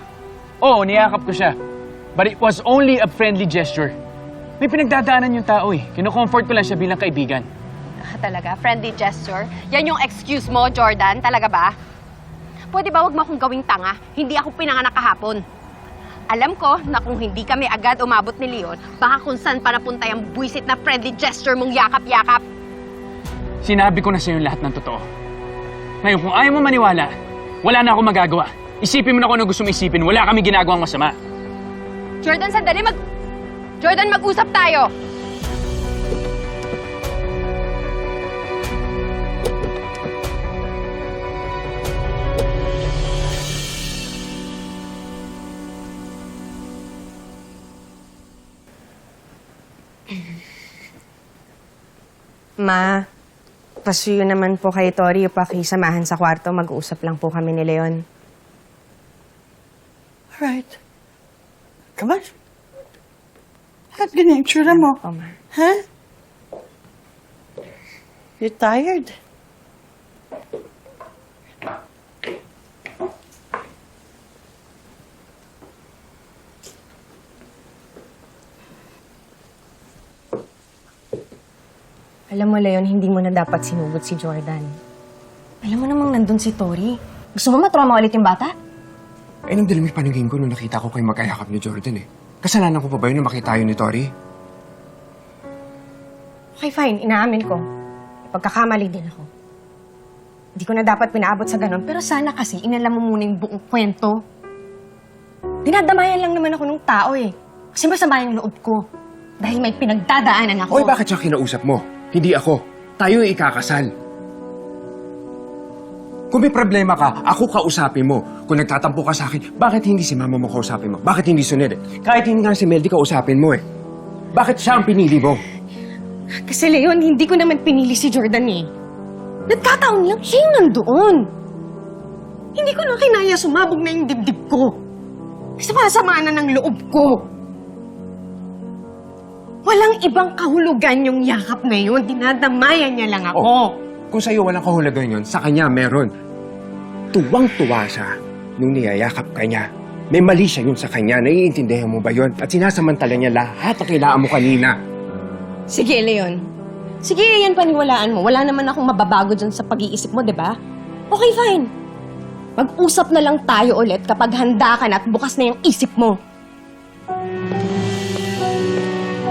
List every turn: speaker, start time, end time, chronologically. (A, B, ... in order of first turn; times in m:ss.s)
0:00.6-0:01.5 A
0:02.2-0:03.9 A
0:04.6-0:07.5 A
0:08.0-0:11.7 B
0:12.7-0:15.4 B
0:16.3-0:22.4 B
0:23.6-0:25.0 A
0:26.0-0:27.1 A
0:27.6-0:31.2 A
0:32.2-0:33.0 B
0:33.8-0:34.9 B
0:52.6-0:53.0 C
0:53.8-0:58.0 C
1:00.3-1:00.7 D
1:02.0-1:02.3 D
1:03.9-1:05.0 D
1:04.6-1:05.3 C
1:05.5-1:05.8 D
1:08.4-1:09.1 D
1:22.3-1:24.7 C
1:25.6-1:28.5 C
1:29.5-1:34.1 E
1:36.6-1:37.6 C
1:38.2-1:39.3 C
1:40.6-1:44.2 C
1:45.6-1:48.8 C
1:49.4-1:51.0 C
1:50.7-1:53.9 E
1:56.3-2:03.6 E
2:04.3-2:05.4 E
2:06.4-2:08.6 C
2:09.5-2:11.2 C
2:12.6-2:14.7 C
2:15.6-2:17.2 C
2:19.6-2:23.7 C
2:24.1-2:26.1 E
2:27.1-2:34.7 E
2:35.7-2:36.4 C
2:37.0-2:40.5 C
2:41.1-2:41.7 C
2:42.6-2:46.2 C